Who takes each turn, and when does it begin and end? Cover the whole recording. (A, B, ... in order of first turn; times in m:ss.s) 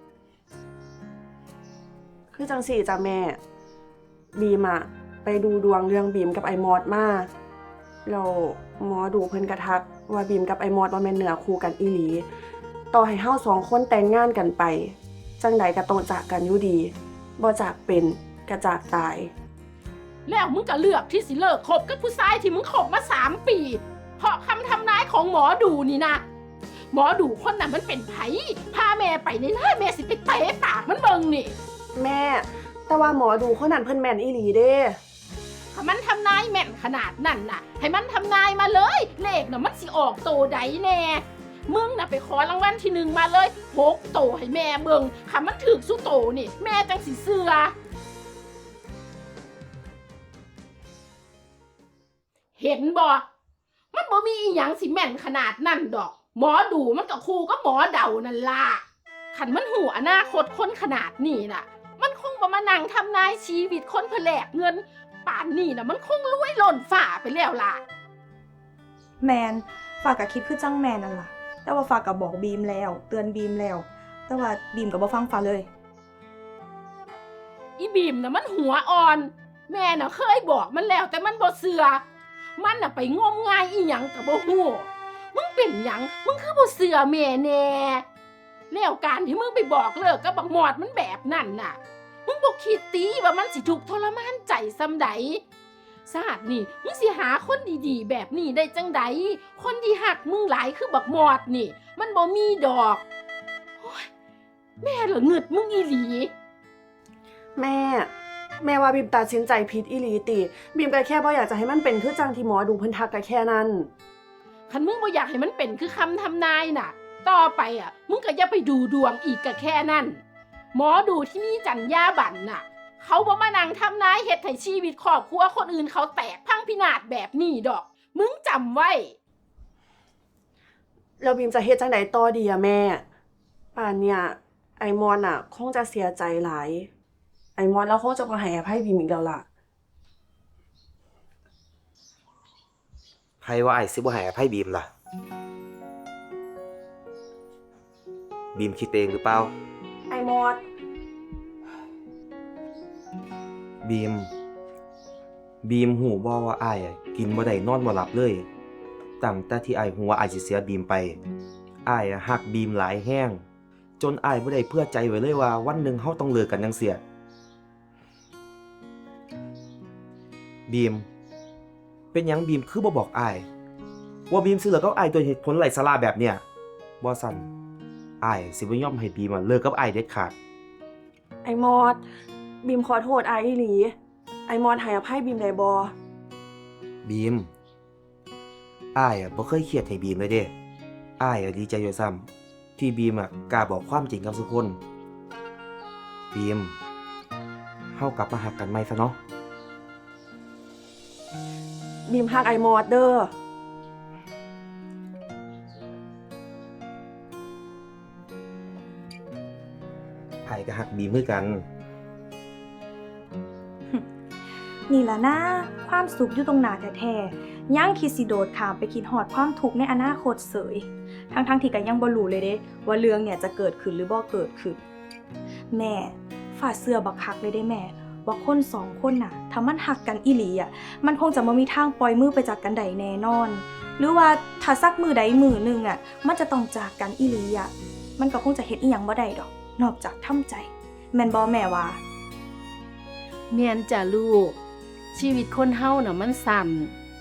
0:02.3-0:03.4 A
0:04.3-0:07.3 A
0:08.0-0:12.2 A
0:12.9-0:19.3 A
0:20.2-0:26.2 B
0:26.9-0:31.5 B
0:31.9-0:35.0 A
0:35.7-0:47.7 B
0:52.6-0:53.2 B
0:53.9-1:07.8 B
1:09.2-1:15.7 C
1:17.8-1:22.0 B
1:22.6-1:28.0 B
1:28.7-1:35.4 B
1:36.0-1:43.0 B
1:43.8-1:44.1 B
1:44.8-1:46.3 B
1:47.6-1:48.1 A
1:48.6-1:53.9 A
1:54.7-2:00.2 B
2:00.7-2:09.2 B
2:11.2-2:13.0 A
2:13.7-2:16.9 A
2:17.6-2:19.4 A
2:23.4-2:24.9 D
2:28.5-2:29.5 D
2:30.1-2:30.6 A
2:33.8-2:34.3 D
2:35.6-2:38.4 D
2:39.2-2:41.2 D
2:41.8-2:43.4 D
2:44.0-2:47.0 D
2:50.7-2:51.0 D
2:52.1-2:53.4 D
2:54.3-2:56.4 D
2:57.0-2:57.4 D
2:58.2-3:00.3 D
3:01.4-3:02.0 A
3:02.6-3:03.9 A
3:04.5-3:05.9 A
3:07.0-3:07.5 D
3:08.9-3:10.5 D
3:11.2-3:14.8 D
3:16.3-3:16.7 D
3:17.9-3:19.2 D
3:22.1-3:23.3 A
3:30.4-3:31.6 D
3:34.9-3:44.8 C
3:45.7-4:02.0 C
4:03.5-4:04.6 B
4:05.1-4:06.9 B